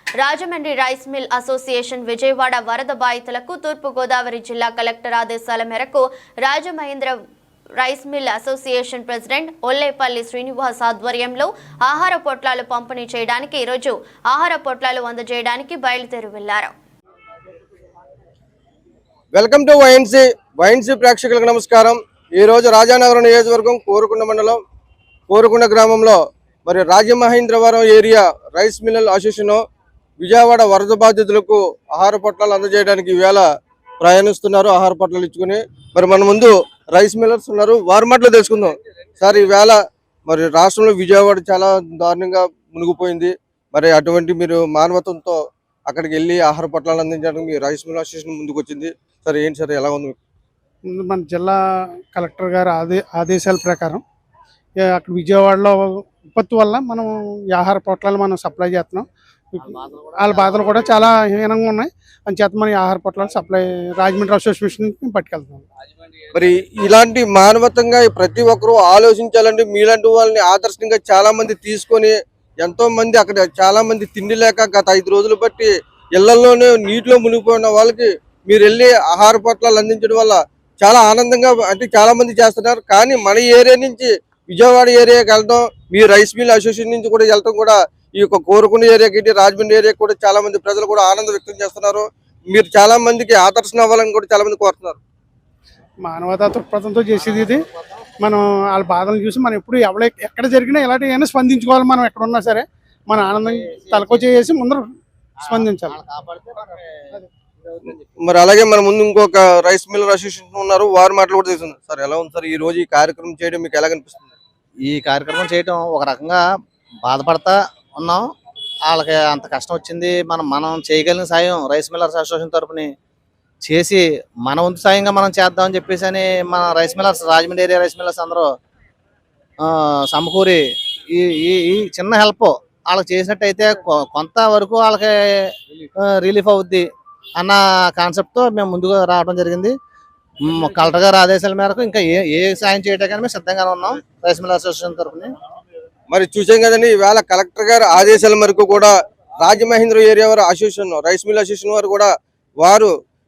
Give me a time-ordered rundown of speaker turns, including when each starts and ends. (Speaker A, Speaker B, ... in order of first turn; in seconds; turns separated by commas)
Speaker A: 0.2-7.2, Speaker A: 7.8-16.7, Speaker B: 19.3-24.6, Speaker B: 25.3-29.6, Speaker B: 30.2-33.5, Speaker B: 34.0-50.2, Speaker C: 50.9-51.6, Speaker C: 52.1-54.0, Speaker C: 54.8-65.7, Speaker D: 59.6-61.1, Speaker B: 66.3-95.0, Speaker C: 96.0-97.7, Speaker D: 97.2-98.0, Speaker C: 98.2-104.9, Speaker D: 103.2-104.3, Speaker D: 105.4-107.2, Speaker C: 105.4-106.0, Speaker B: 108.2-114.3, Speaker D: 114.8-116.4, Speaker D: 117.0-118.3, Speaker D: 118.9-122.9, Speaker D: 123.7-128.5, Speaker D: 129.6-136.9, Speaker D: 137.4-139.8, Speaker D: 140.4-145.3, Speaker B: 146.1-152.1, Speaker B: 152.6-152.9